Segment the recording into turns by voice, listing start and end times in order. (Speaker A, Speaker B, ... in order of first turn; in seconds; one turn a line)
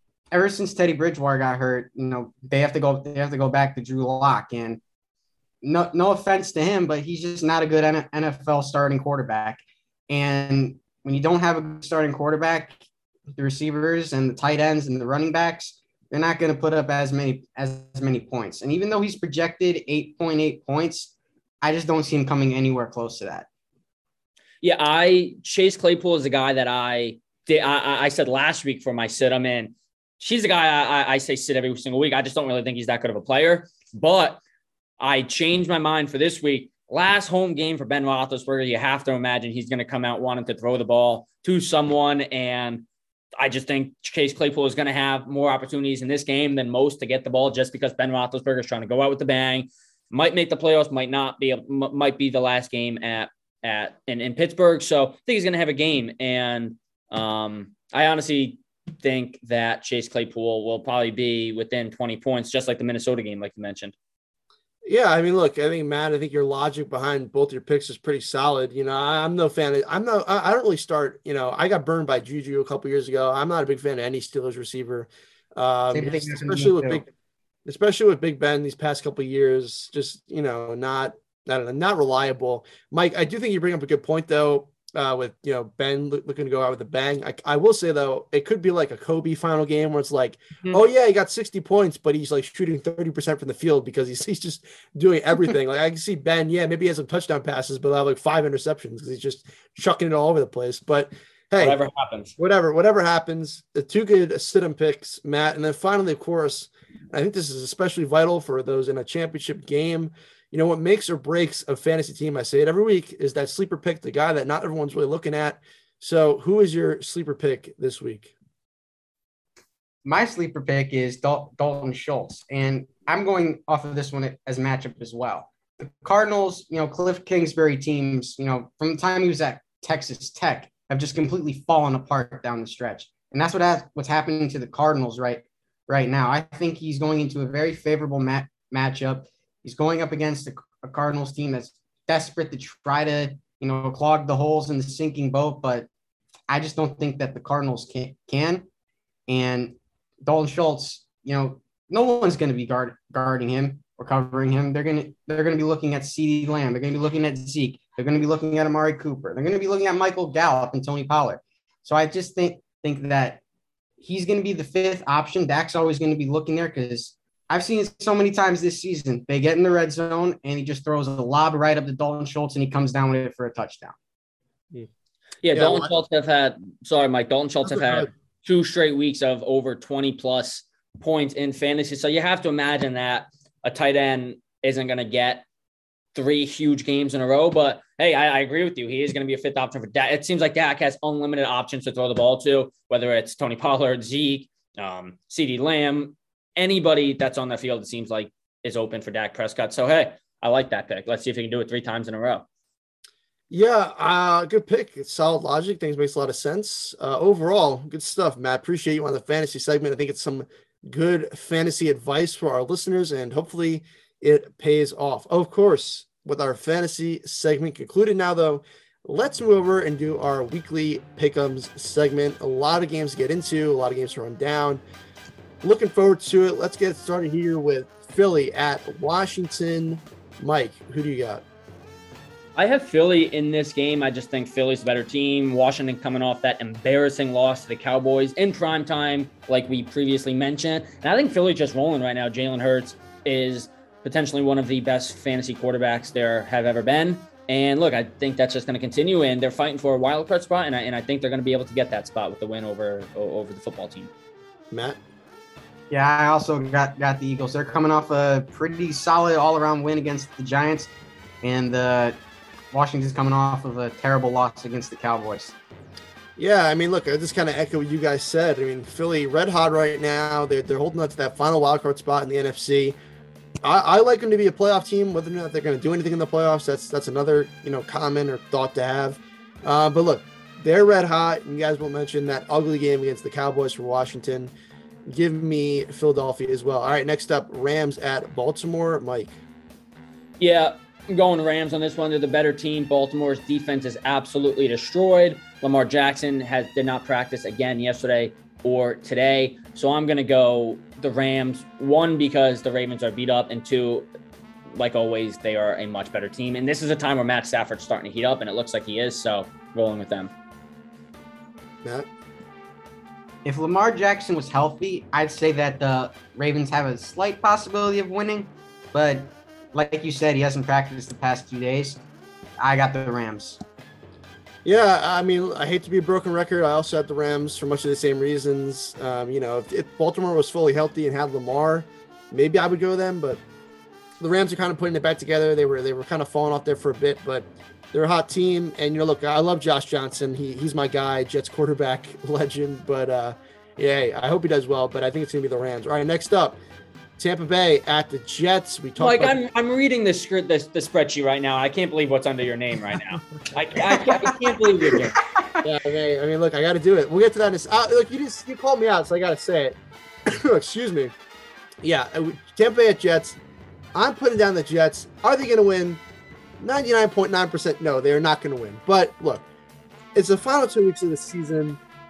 Speaker A: 0.3-4.8
Speaker A: 5.6-12.7
Speaker A: 13.3-23.5
Speaker B: 24.6-34.4
Speaker B: 35.0-42.9
Speaker B: 43.4-63.9
Speaker C: 64.8-77.1
Speaker A: 75.9-77.0
Speaker C: 77.7-101.8
Speaker B: 101.6-102.3
Speaker C: 102.4-118.3
Speaker A: 120.0-145.9
Speaker A: 146.5-148.7
Speaker A: 149.3-163.4
Speaker A: 164.0-173.9
Speaker B: 175.4-185.4
Speaker C: 175.5-175.9
Speaker C: 177.6-178.1
Speaker B: 186.1-202.4
Speaker C: 203.5-224.8
Speaker C: 225.6-231.4
Speaker B: 232.6-254.1
Speaker C: 254.7-255.0
Speaker A: 255.9-262.2
Speaker A: 262.7-265.6
Speaker C: 266.4-273.0
Speaker C: 273.6-284.5
Speaker C: 285.1-289.4
Speaker B: 290.4-304.1
Speaker B: 304.7-310.3
Speaker A: 313.4-322.0
Speaker A: 322.6-323.6
Speaker C: 324.6-333.4
Speaker C: 334.2-346.6
Speaker C: 347.2-349.3
Speaker B: 349.0-355.2
Speaker A: 353.9-354.3
Speaker C: 355.6-359.8
Speaker C: 360.3-361.1
Speaker C: 361.8-363.4
Speaker C: 363.9-366.0
Speaker C: 366.6-369.4
Speaker C: 370.1-371.8